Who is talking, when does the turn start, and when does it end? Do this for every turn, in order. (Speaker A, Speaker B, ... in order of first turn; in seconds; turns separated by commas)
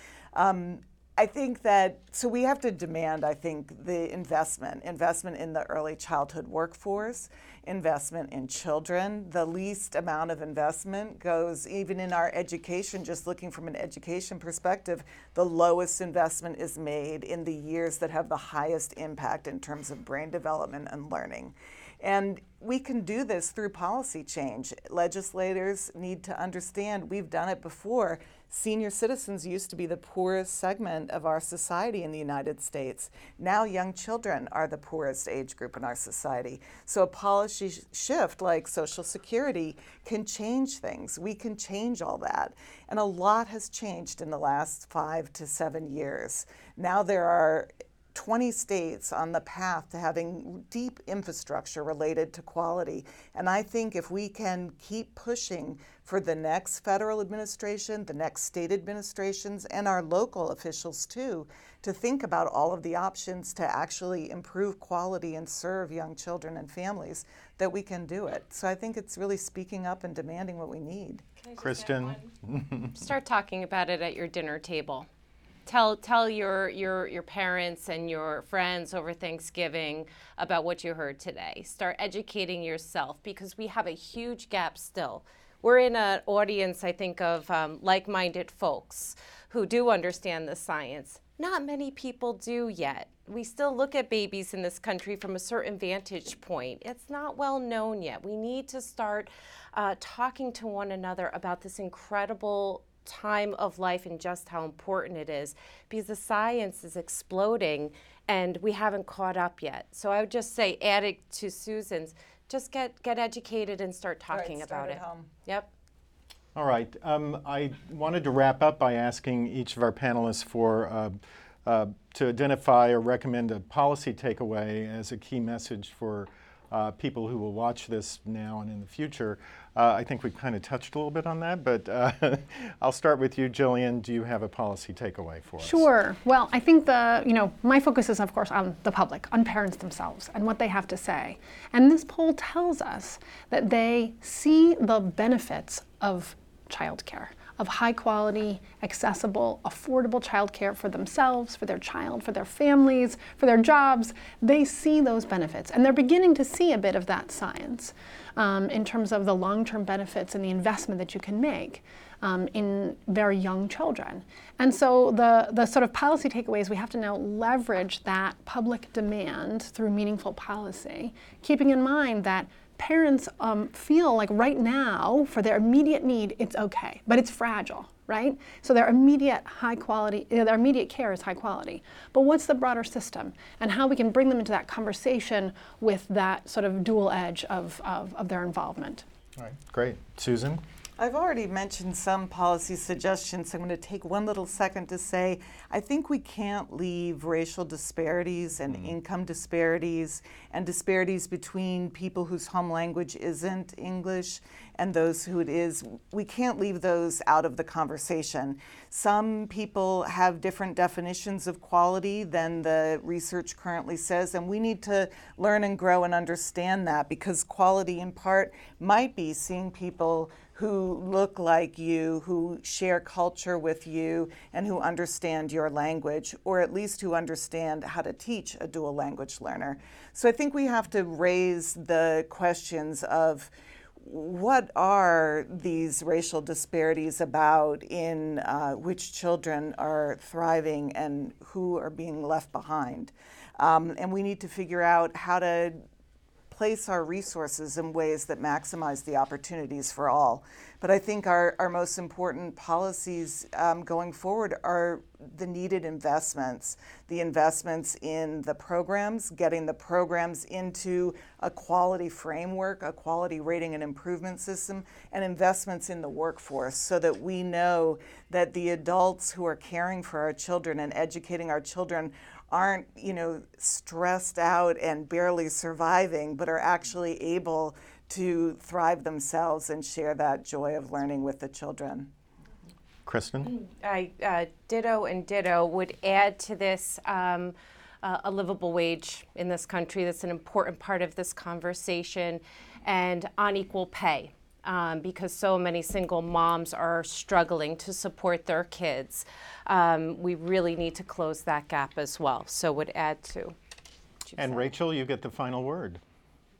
Speaker A: 0.3-71.2, Speaker B: 71.4-72.2, Speaker C: 71.6-73.0, Speaker B: 73.0-75.1, Speaker B: 75.7-115.7, Speaker A: 114.3-115.3, Speaker C: 116.5-135.9, Speaker D: 135.6-189.1, Speaker C: 189.4-190.6, Speaker A: 191.0-245.8, Speaker C: 198.7-198.9, Speaker A: 246.5-282.1, Speaker C: 283.1-283.5, Speaker B: 283.5-303.6, Speaker B: 304.3-304.7, Speaker C: 304.4-306.0